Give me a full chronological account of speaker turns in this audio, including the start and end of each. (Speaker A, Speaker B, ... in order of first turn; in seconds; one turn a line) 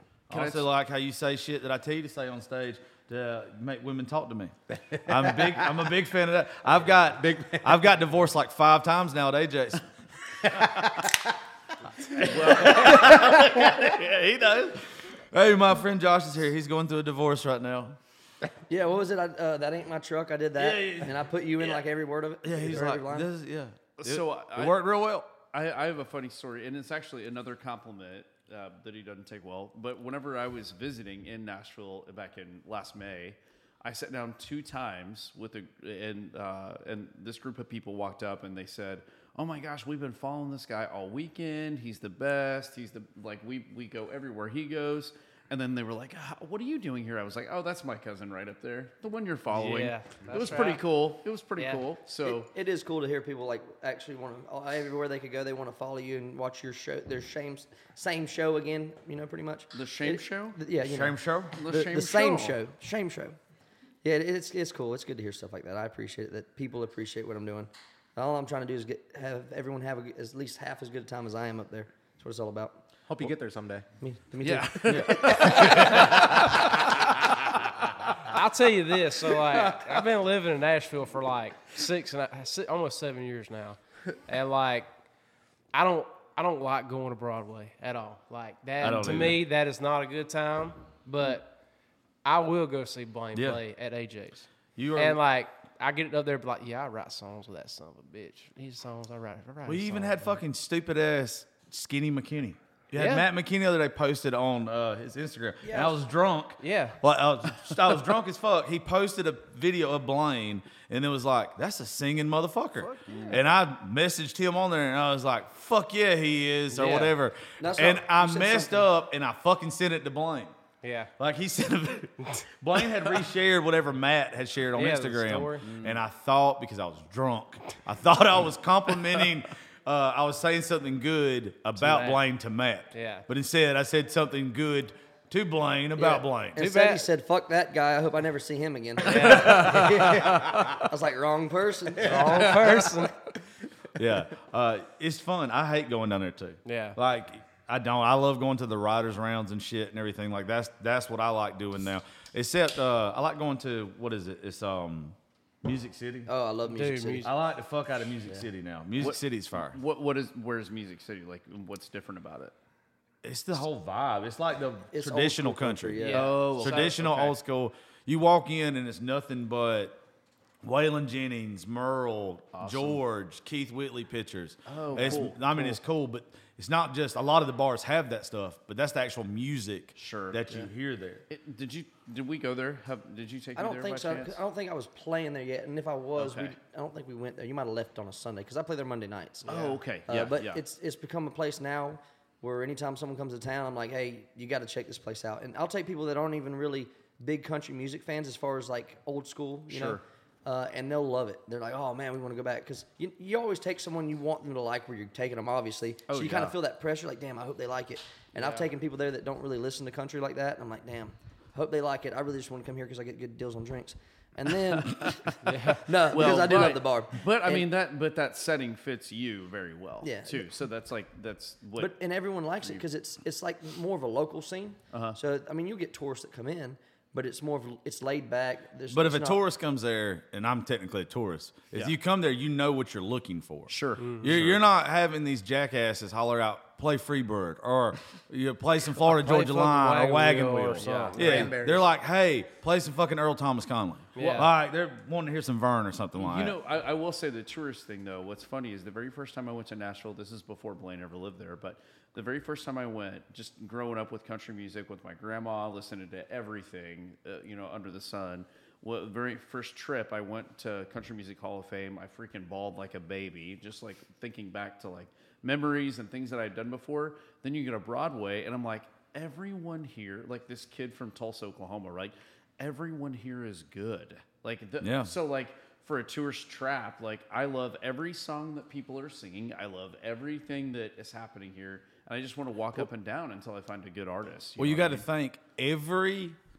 Speaker A: 0.3-9.8
Speaker B: 0.3-0.7
Speaker C: 4.9-5.6
Speaker C: 7.2-7.8
Speaker A: 10.4-11.0
Speaker C: 10.6-10.9
Speaker A: 12.0-18.0
Speaker B: 12.4-12.8
Speaker D: 18.7-23.3
Speaker A: 20.6-21.2
Speaker A: 22.4-25.3
Speaker B: 24.0-24.9
Speaker B: 25.4-52.5
Speaker E: 49.5-50.8
Speaker E: 51.6-51.8
Speaker D: 52.2-63.4
Speaker B: 59.7-60.6
Speaker A: 60.8-61.5
Speaker B: 61.5-62.6
Speaker D: 64.0-73.3
Speaker C: 73.1-73.8
Speaker D: 74.0-76.2
Speaker B: 74.4-76.7
Speaker A: 74.9-75.9
Speaker E: 78.2-84.9
Speaker B: 79.2-79.9
Speaker E: 85.7-91.5
Speaker A: 88.8-89.4
Speaker E: 92.2-100.4
Speaker A: 93.3-93.6
Speaker A: 94.8-95.2
Speaker A: 99.6-120.5
Speaker E: 103.0-103.3
Speaker D: 105.6-106.0
Speaker E: 106.6-107.0
Speaker B: 113.1-113.4
Speaker E: 113.1-113.4
Speaker E: 116.7-117.1
Speaker D: 117.6-118.9
Speaker E: 120.8-121.1
Speaker A: 121.2-136.6
Speaker E: 124.7-125.6
Speaker B: 125.6-126.0
Speaker E: 131.8-132.2
Speaker E: 132.9-133.2
Speaker D: 135.9-142.8
Speaker E: 136.6-137.0
Speaker E: 139.1-139.9
Speaker B: 139.1-140.6
Speaker E: 142.0-143.2
Speaker A: 143.9-156.3
Speaker E: 146.6-147.0
Speaker D: 156.3-157.3
Speaker E: 156.7-157.3
Speaker A: 157.2-159.8
Speaker B: 159.0-162.5
Speaker A: 163.2-170.0
Speaker D: 164.9-166.5
Speaker E: 166.0-167.1
Speaker B: 166.1-167.3
Speaker A: 170.6-181.2
Speaker B: 172.5-173.0
Speaker B: 174.6-175.8
Speaker B: 179.9-180.7
Speaker B: 181.3-184.4
Speaker D: 183.6-217.7
Speaker B: 186.2-186.6
Speaker B: 189.4-190.6
Speaker B: 199.7-200.0
Speaker B: 206.1-206.6
Speaker B: 208.4-208.6
Speaker E: 215.4-215.9
Speaker B: 215.7-221.9
Speaker D: 220.0-220.5
Speaker D: 221.8-229.4
Speaker B: 224.9-225.2
Speaker A: 228.9-246.6
Speaker B: 233.7-234.6
Speaker E: 234.0-234.3
Speaker E: 239.1-241.6
Speaker B: 240.7-241.5
Speaker C: 241.1-241.9
Speaker E: 244.2-244.5
Speaker B: 244.2-244.5
Speaker B: 246.2-285.1
Speaker A: 274.8-275.1
Speaker A: 284.6-286.4